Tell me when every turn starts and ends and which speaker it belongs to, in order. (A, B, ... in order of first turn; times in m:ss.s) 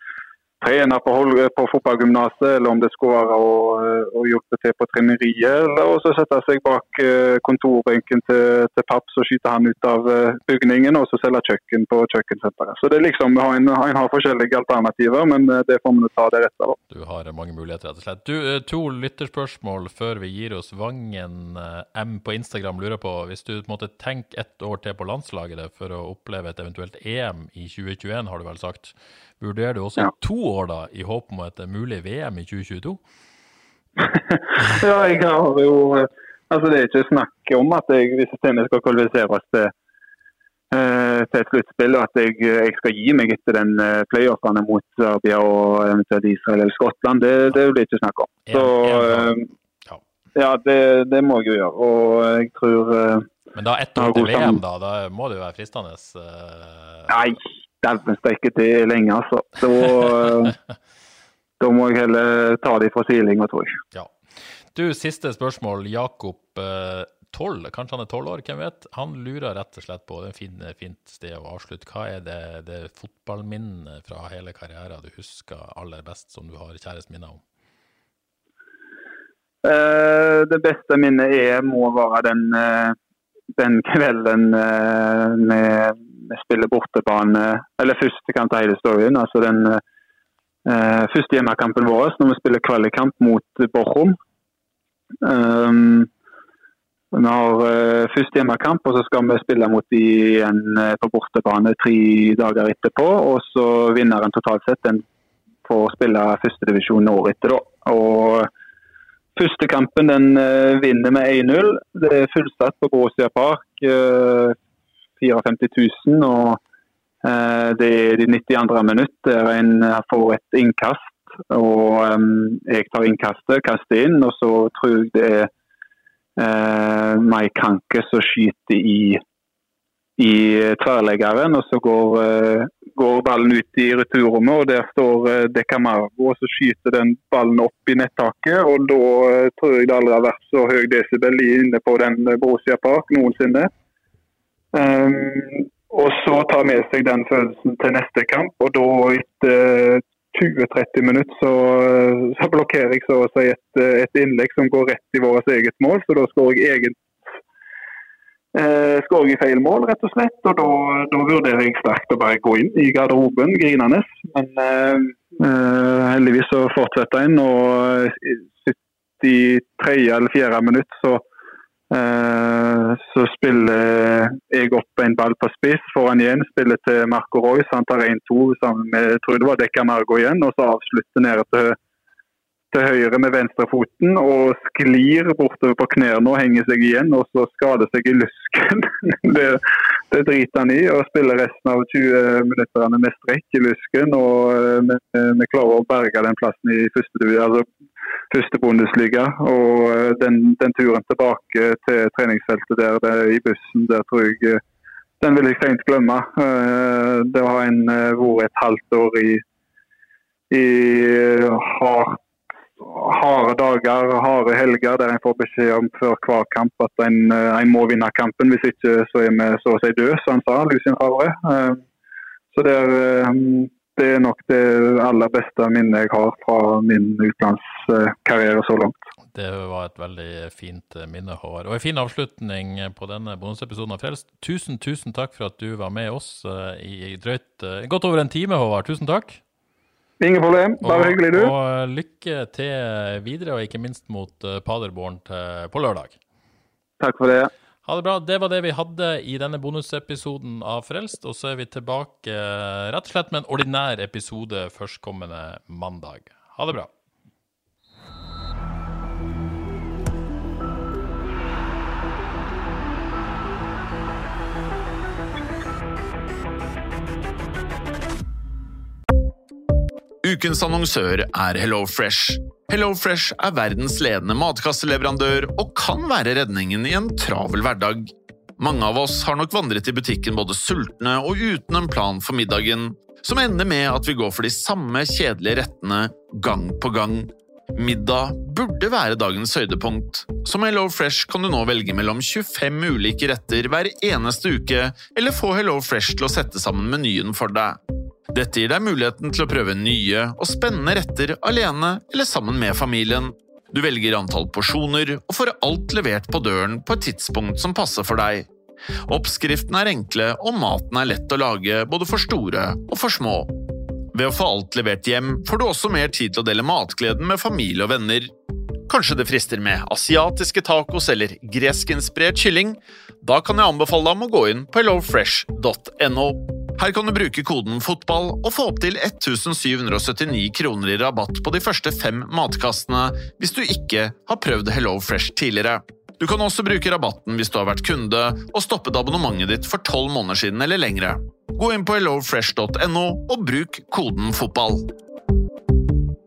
0:00.6-0:16.8 A
0:16.9-0:33.0 B
0:34.1-0:39.7 A
0:40.7-0:49.5 A
0:48.5-0:50.0 B
0:50.4-0:53.3 A
0:53.5-0:57.1 B
0:54.0-0:54.6 A
0:57.1-1:00.6 A
1:01.6-1:03.8 A
1:04.7-1:17.4 B
1:19.6-1:23.0 A
1:23.6-1:29.8 A
1:30.7-1:34.2 A
1:35.2-1:36.1 A
1:37.1-1:45.0 A
1:45.7-1:48.5 A
1:49.4-1:54.6 A
1:55.2-1:56.6 A
1:57.2-2:05.5 A
2:06.4-2:09.2 A
2:10.2-2:23.7 A
2:24.7-2:37.0 A
2:38.5-2:51.2 A
2:51.9-3:01.8 A
3:02.7-3:17.6 A
3:18.3-3:24.6 A
3:25.2-3:29.4 A
3:30.5-3:32.2 A
3:32.8-3:41.8 A
3:42.5-3:49.0 A
3:49.3-3:59.4 B
4:00.2-4:01.5 A
4:00.8-4:06.2 B
4:07.0-4:07.5 A
4:07.8-4:16.9 B
4:30.2-4:57.8 C
4:58.3-5:08.5 C
5:09.1-5:13.5 C
5:14.1-5:18.3 C
5:18.9-5:44.9 C